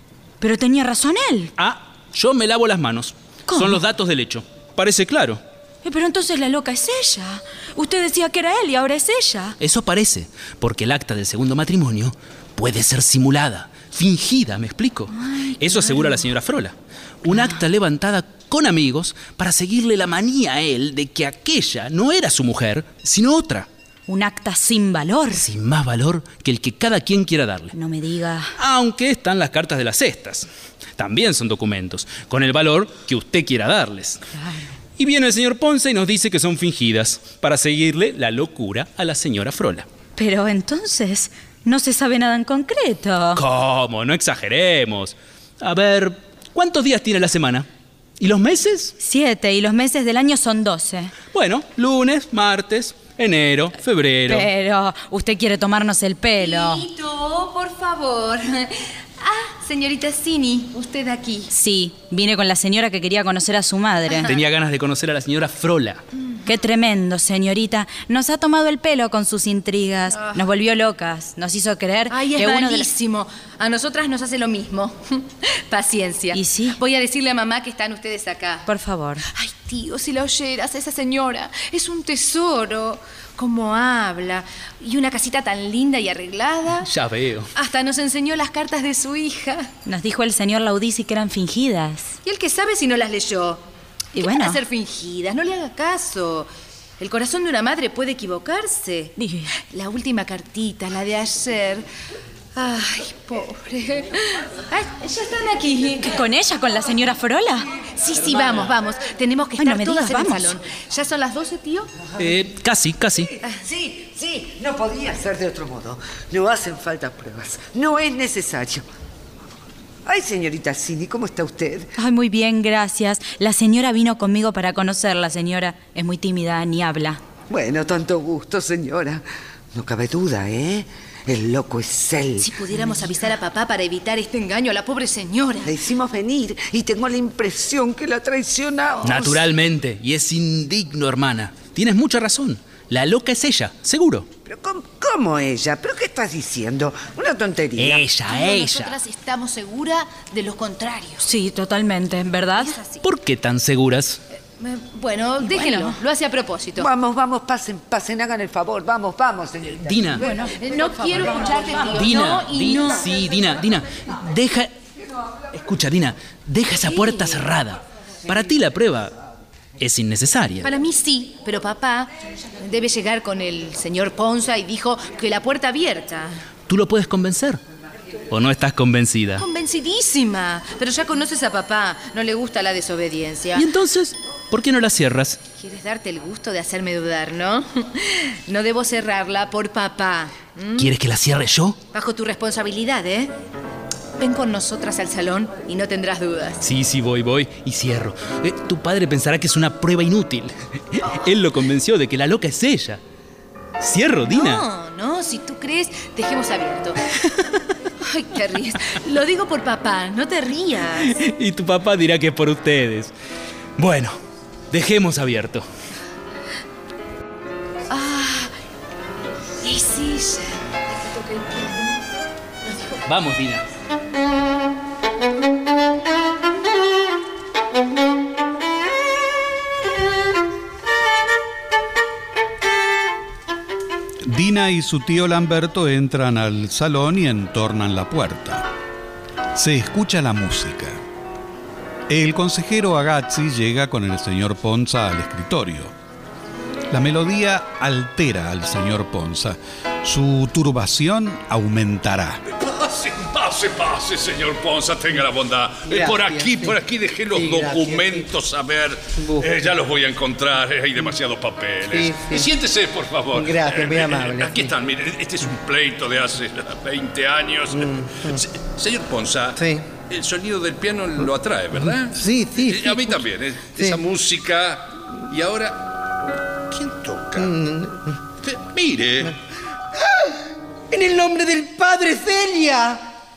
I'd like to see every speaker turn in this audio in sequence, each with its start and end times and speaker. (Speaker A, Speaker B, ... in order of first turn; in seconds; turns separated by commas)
Speaker A: 0.4-1.5, Speaker B: 1.6-5.4, Speaker A: 3.5-3.8, Speaker A: 5.8-9.6, Speaker B: 9.6-23.7, Speaker A: 15.2-16.2, Speaker A: 17.3-17.6, Speaker A: 24.1-25.4, Speaker B: 25.3-27.7, Speaker A: 27.7-28.5, Speaker B: 28.6-30.5, Speaker B: 31.0-34.2, Speaker B: 35.0-39.9, Speaker A: 40.2-43.4, Speaker B: 43.4-47.7, Speaker B: 48.2-48.9, Speaker A: 49.0-51.1, Speaker B: 51.3-54.5, Speaker A: 54.3-56.9, Speaker C: 56.4-61.5, Speaker A: 61.5-64.3, Speaker B: 64.3-66.0, Speaker A: 66.5-72.9, Speaker C: 70.1-70.4, Speaker C: 72.1-78.6, Speaker A: 76.3-76.8, Speaker A: 78.7-79.2, Speaker C: 79.3-86.9, Speaker B: 86.8-87.5, Speaker C: 87.5-89.7, Speaker A: 89.8-92.2, Speaker C: 92.2-93.6, Speaker A: 94.2-94.6, Speaker C: 94.2-101.9, Speaker A: 99.2-99.5, Speaker C: 102.5-106.1, Speaker A: 106.0-107.7, Speaker C: 108.0-111.9, Speaker A: 109.6-110.6, Speaker B: 112.2-113.3, Speaker D: 113.5-118.8, Speaker D: 120.1-121.9, Speaker A: 122.0-127.2, Speaker D: 127.5-129.2, Speaker D: 129.7-132.8, Speaker C: 132.4-135.7, Speaker D: 135.7-139.5, Speaker B: 139.0-144.3, Speaker D: 144.5-148.1, Speaker B: 147.8-149.0, Speaker C: 148.2-151.3, Speaker A: 151.2-152.8, Speaker C: 152.6-153.0, Speaker B: 153.0-154.2, Speaker C: 154.6-156.9, Speaker A: 155.4-156.0, Speaker D: 156.8-161.9, Speaker B: 159.8-160.2, Speaker C: 160.2-163.1, Speaker B: 161.9-164.7, Speaker B: 165.5-169.1, Speaker B: 169.8-170.7, Speaker C: 170.6-172.1, Speaker C: 172.6-176.4, Speaker B: 176.7-177.6, Speaker B: 178.3-179.5, Speaker C: 179.4-183.7, Speaker B: 183.6-185.4, Speaker C: 185.6-190.9, Speaker B: 190.8-191.8, Speaker C: 191.9-193.3, Speaker C: 194.2-196.6, Speaker B: 196.6-203.0, Speaker B: 203.8-204.7, Speaker C: 204.3-207.3, Speaker C: 208.0-211.2, Speaker B: 211.1-213.1, Speaker B: 213.8-214.2, Speaker B: 214.7-215.7, Speaker C: 217.9-218.5, Speaker C: 219.6-221.7, Speaker B: 223.1-223.7, Speaker E: 234.2-238.7, Speaker E: 239.6-241.0, Speaker E: 242.1-245.9, Speaker E: 246.9-252.4, Speaker F: 252.5-275.9, Speaker G: 255.9-256.8, Speaker G: 257.3-258.3, Speaker G: 259.1-259.7, Speaker G: 261.9-262.5, Speaker G: 263.3-264.7, Speaker G: 267.7-268.4, Speaker G: 269.6-269.9, Speaker G: 271.8-274.0, Speaker F: 276.7-277.6, Speaker G: 277.4-278.1, Speaker F: 278.4-279.4, Speaker G: 280.0-280.4, Speaker G: 280.9-283.1